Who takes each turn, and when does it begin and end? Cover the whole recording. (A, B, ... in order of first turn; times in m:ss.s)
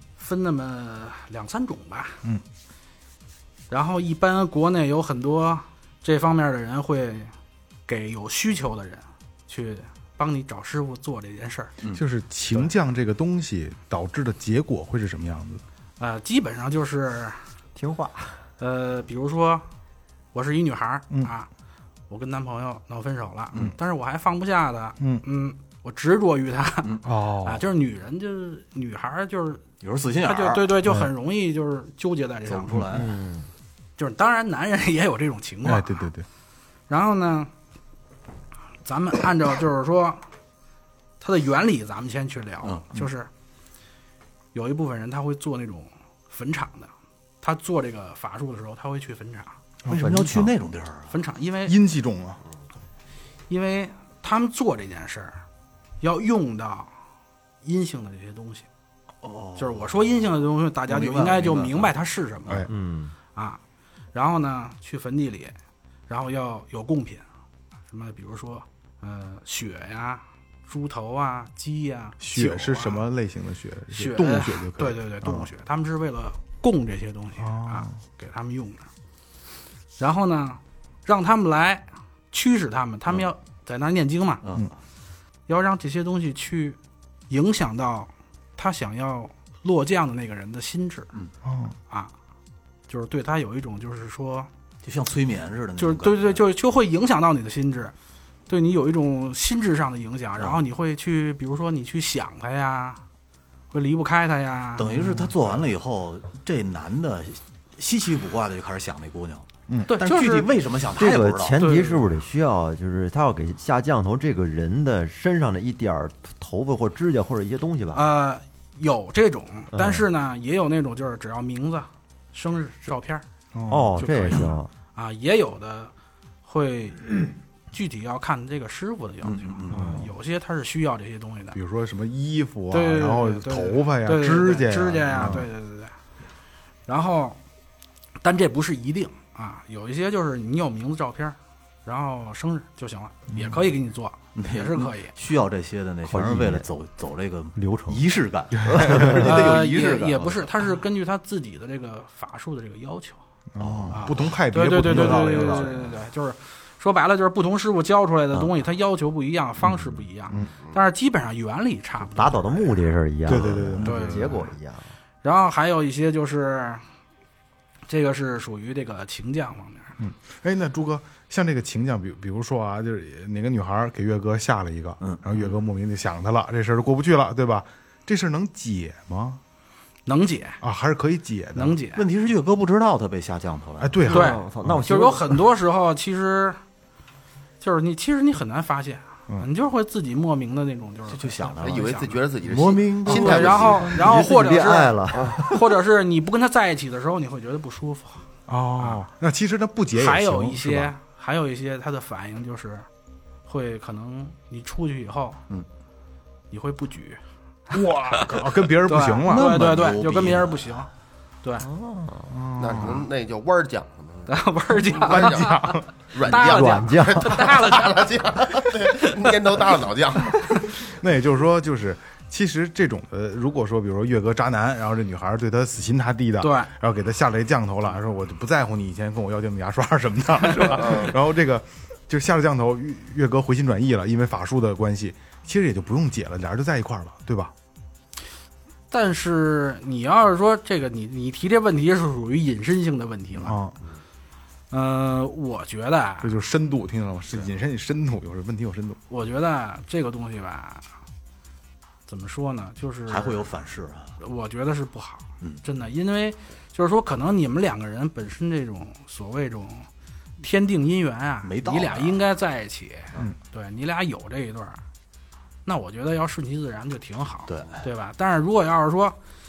0:00.2-0:02.2 A
0:03.7-0:07.3 A
0:07.9-0:11.7 A
0:11.9-0:15.6 B
0:16.0-0:17.4 A
0:17.7-0:18.4 C
0:18.6-0:19.7 A
0:20.3-0:21.5 A
0:22.1-0:29.6 A
0:27.0-0:27.6 B
0:29.8-0:30.7 D
0:30.2-0:33.0 A
0:30.8-0:31.1 B
0:32.5-0:33.1 D
0:32.9-0:33.5 C
0:34.0-0:36.1 A
0:35.6-0:36.2 B
0:36.9-0:37.5 A
0:38.8-0:40.2 A
0:41.2-0:43.3 A
0:44.5-0:49.6 A
0:49.8-0:50.5 B
0:49.9-0:51.1 D
0:51.1-0:51.8 A
0:51.6-0:52.4 B
0:53.5-0:55.4 A
0:56.0-0:56.9 A
0:57.6-0:58.7 A
0:59.2-1:00.1 D
0:59.6-1:02.7 A
1:00.9-1:01.9 D
1:02.7-1:03.1 C
1:03.3-1:03.6 A
1:04.1-1:05.5 A
1:06.1-1:07.2 A
1:07.9-1:13.0 A
1:12.2-1:15.5 B
1:13.9-1:18.9 A
1:17.4-1:18.0 B
1:20.0-1:24.4 A
1:24.4-1:24.7 D
1:25.5-1:26.8 A
1:27.3-1:31.1 A
1:31.4-1:31.8 B
1:32.9-1:34.5 A
1:34.8-1:36.4 D
1:35.8-1:37.9 A
1:38.5-1:43.0 A
1:43.7-1:44.9 A
1:44.8-1:51.6 D
1:49.9-1:50.5 A
1:51.0-1:58.1 C
1:51.6-1:52.1 A
1:57.9-2:03.2 A
1:59.7-2:00.0 C
2:03.5-2:04.0 B
2:03.7-2:04.7 C
2:04.0-2:05.9 A
2:06.4-2:11.6 A
2:09.2-2:09.8 D
2:09.7-2:10.1 B
2:11.5-2:15.5 B
2:12.7-2:16.0 A
2:16.8-2:17.4 A
2:18.2-2:25.1 A
2:24.3-2:30.7 D
2:26.0-2:26.7 C
2:27.6-2:28.1 C
2:28.6-2:29.2 B
2:28.7-2:29.6 C
2:29.1-2:33.2 A
2:33.5-2:35.8 B
2:33.6-2:35.9 D
2:33.9-2:42.8 A
2:42.1-2:44.9 C
2:43.3-2:44.3 B
2:43.8-2:44.5 A
2:45.2-2:46.8 A
2:47.9-2:49.9 A
2:50.0-2:59.4 B
2:55.0-2:55.5 D
3:00.0-3:00.6 A
3:00.6-3:01.8 B
3:01.5-3:02.0 A
3:01.9-3:04.0 D
3:03.8-3:04.8 B
3:04.0-3:05.3 C
3:04.1-3:06.6 A
3:07.6-3:12.2 A
3:11.1-3:14.2 D
3:11.6-3:14.0 E
3:13.1-3:18.2 A
3:13.1-3:15.7 C
3:15.1-3:15.4 E
3:18.5-3:20.9 B
3:19.9-3:22.9 A
3:23.4-3:25.4 A
3:26.5-3:27.2 A
3:27.7-3:29.9 B
3:28.8-3:30.9 A
3:29.3-3:30.9 D
3:31.6-3:32.4 C
3:32.3-3:33.1 B
3:32.6-3:34.4 E
3:34.3-3:38.1 A
3:34.9-3:35.5 E
3:35.0-3:35.9 B
3:36.1-3:40.5 E
3:36.3-3:37.4 C
3:40.8-3:57.5 B
3:46.4-3:46.7 A
3:58.9-4:03.6 A
4:03.4-4:03.8 B
4:04.7-4:06.3 A
4:06.2-4:09.0 B
4:09.1-4:10.8 A
4:12.1-4:13.5 A
4:13.1-4:14.1 D
4:14.2-4:19.9 A
4:20.4-4:24.8 A
4:21.4-4:22.2 D
4:25.6-4:29.2 A
4:27.5-4:27.8 D